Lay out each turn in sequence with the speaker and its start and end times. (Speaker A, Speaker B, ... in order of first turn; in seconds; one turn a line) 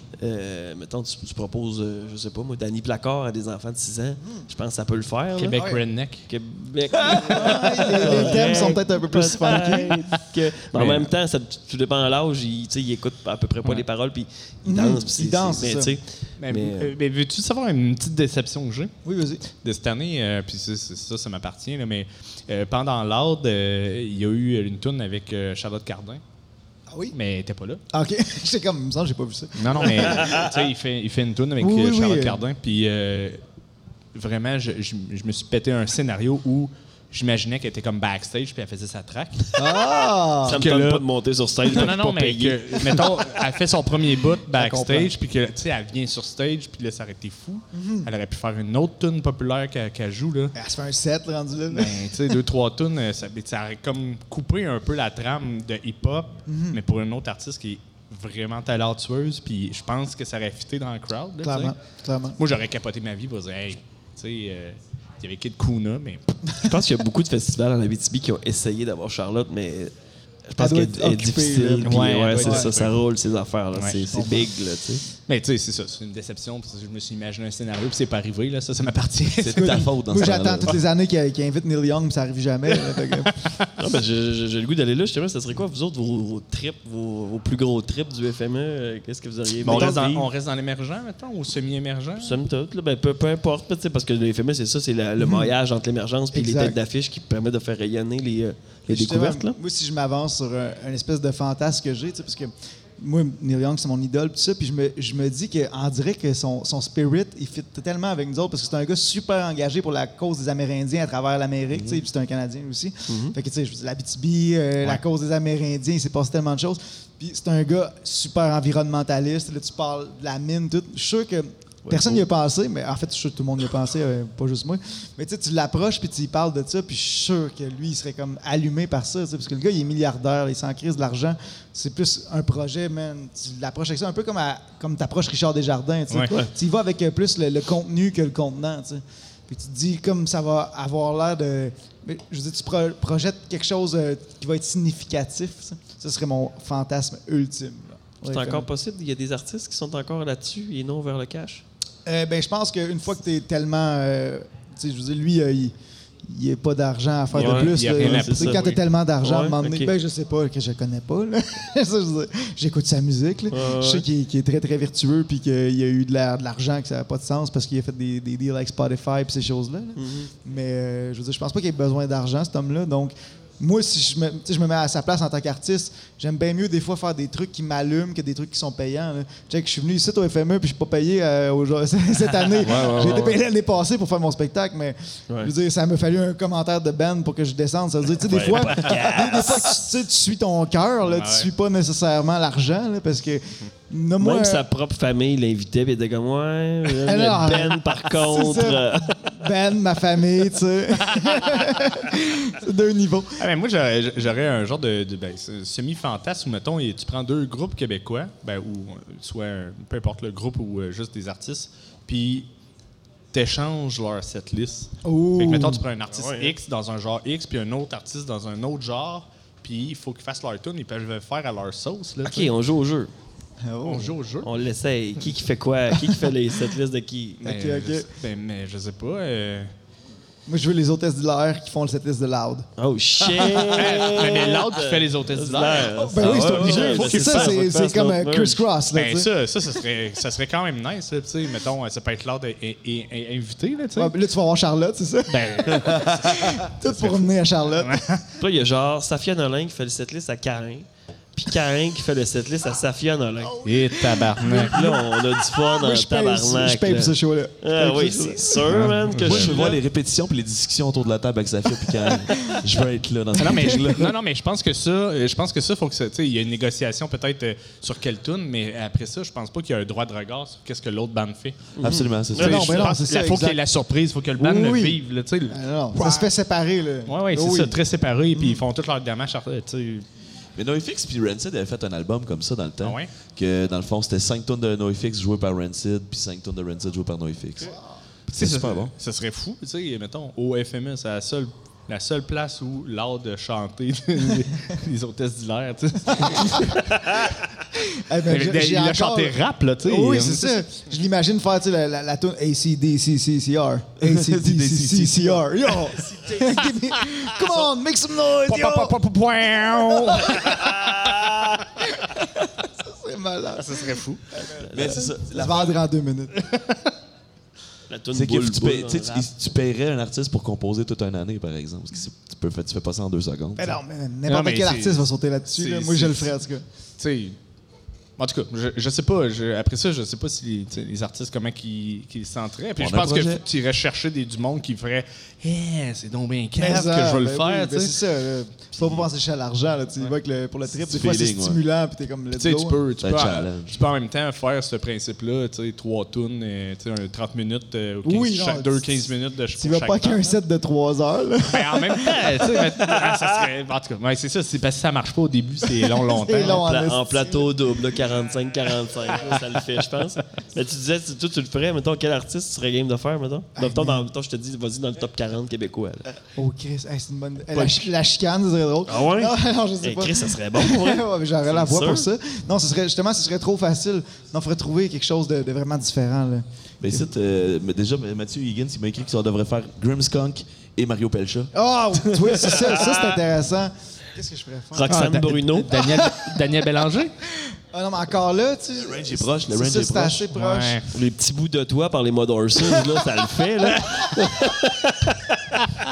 Speaker A: 0.2-5.7
Speaker B: 5.4-6.3
Speaker C: 5.6-5.8
Speaker A: 6.3-16.9
Speaker B: 7.0-8.4
Speaker C: 7.0-10.0
Speaker B: 10.7-11.1
Speaker C: 14.7-16.0
Speaker B: 16.4-18.9
Speaker C: 19.1-19.4
Speaker B: 19.5-26.2
Speaker C: 26.9-27.1
Speaker B: 27.1-27.8
Speaker C: 27.9-30.5
Speaker B: 29.6-33.4
Speaker A: 30.1-30.5
Speaker C: 31.6-32.4
Speaker B: 34.1-39.9
Speaker C: 39.6-40.6
Speaker A: 40.4-43.1
Speaker B: 40.5-41.0
Speaker B: 41.6-50.5
Speaker C: 44.5-45.1
Speaker C: 47.7-48.1
Speaker C: 50.5-52.1
Speaker B: 51.7-61.8
Speaker C: 56.5-56.8
Speaker C: 61.4-62.4
Speaker B: 62.4-66.3
Speaker A: 66.6-69.9
Speaker A: 70.5-75.0
Speaker C: 70.6-72.7
Speaker B: 71.8-73.0
Speaker B: 73.8-74.0
Speaker C: 74.1-74.5
Speaker B: 75.3-79.8
Speaker D: 79.4-80.8
Speaker C: 79.5-83.5
Speaker B: 82.8-83.7
Speaker A: 83.8-90.2
Speaker B: 89.6-92.4
Speaker C: 89.7-90.0
Speaker A: 92.2-99.6
Speaker C: 95.2-95.5
Speaker C: 96.3-96.8
Speaker C: 98.9-148.7
Speaker D: 111.7-112.0
Speaker A: 113.1-113.3
Speaker A: 121.9-122.2
Speaker A: 148.2-151.6
Speaker C: 152.1-155.7
Speaker C: 156.3-194.7
Speaker A: 157.3-158.7
Speaker B: 157.3-158.8
Speaker A: 159.2-159.9
Speaker A: 163.5-164.1
Speaker A: 170.0-170.3
Speaker B: 182.5-183.3
Speaker A: 182.6-183.3
Speaker A: 188.3-189.8
Speaker B: 188.5-189.2
Speaker B: 191.1-191.5
Speaker A: 194.2-199.5
Speaker C: 197.0-203.4
Speaker B: 201.1-201.8
Speaker B: 203.4-212.5
Speaker B: 213.3-222.5
Speaker C: 215.1-215.8
Speaker A: 216.1-216.5
Speaker A: 222.2-223.1
Speaker C: 223.6-224.2
Speaker B: 223.8-224.5
Speaker A: 224.4-227.4
Speaker C: 227.4-228.1
Speaker B: 227.4-229.7
Speaker C: 230.5-232.7
Speaker A: 232.8-238.6
Speaker B: 233.7-237.6
Speaker C: 235.9-239.3
Speaker B: 238.9-244.2
Speaker C: 244.0-248.0
Speaker B: 245.3-248.3
Speaker D: 245.9-246.6
Speaker A: 248.4-253.6
Speaker C: 253.4-258.9
Speaker B: 253.6-254.8
Speaker A: 254.6-259.8
Speaker B: 258.7-259.6
Speaker D: 259.2-264.1
Speaker C: 262.0-262.6
Speaker B: 263.4-271.7
Speaker C: 263.5-263.9
Speaker A: 271.8-272.9
Speaker D: 271.8-272.8
Speaker B: 272.3-276.3
Speaker C: 272.4-273.6
Speaker C: 274.4-277.8
Speaker B: 277.1-280.1
Speaker C: 278.3-278.6
Speaker D: 280.6-288.9
Speaker B: 282.8-283.1
Speaker B: 288.3-297.4
Speaker C: 296.2-296.7
Speaker C: 297.8-309.0
Speaker B: 298.2-300.6
Speaker D: 304.0-305.5
Speaker A: 306.0-306.4
Speaker B: 307.1-307.7
Speaker B: 308.5-311.4
Speaker C: 309.7-311.2
Speaker C: 311.9-316.4
Speaker B: 313.6-314.2
Speaker A: 314.6-315.1
Speaker D: 314.7-315.8
Speaker B: 316.4-316.8
Speaker A: 317.9-319.3
Speaker D: 318.1-323.8
Speaker C: 323.6-326.6
Speaker B: 324.3-326.3
Speaker B: 327.0-327.4
Speaker B: 328.2-338.0
Speaker D: 332.8-333.4
Speaker C: 336.6-342.8
Speaker B: 338.8-339.1
Speaker D: 340.7-341.6
Speaker B: 342.4-350.4
Speaker D: 343.0-343.8
Speaker C: 348.0-352.7
Speaker B: 351.5-356.6
Speaker A: 352.9-353.4
Speaker C: 355.8-357.5
Speaker A: 356.3-366.1
Speaker C: 363.6-364.1
Speaker C: 366.4-377.1
Speaker A: 367.5-367.9
Speaker A: 368.9-372.1
Speaker D: 376.8-381.5
Speaker C: 381.5-384.9
Speaker A: 382.5-383.1
Speaker A: 384.7-385.8
Speaker B: 384.9-387.1
Speaker C: 385.7-386.4
Speaker C: 387.2-390.9
Speaker D: 388.7-390.3
Speaker B: 390.3-390.9
Speaker A: 390.9-395.6
Speaker C: 392.6-393.0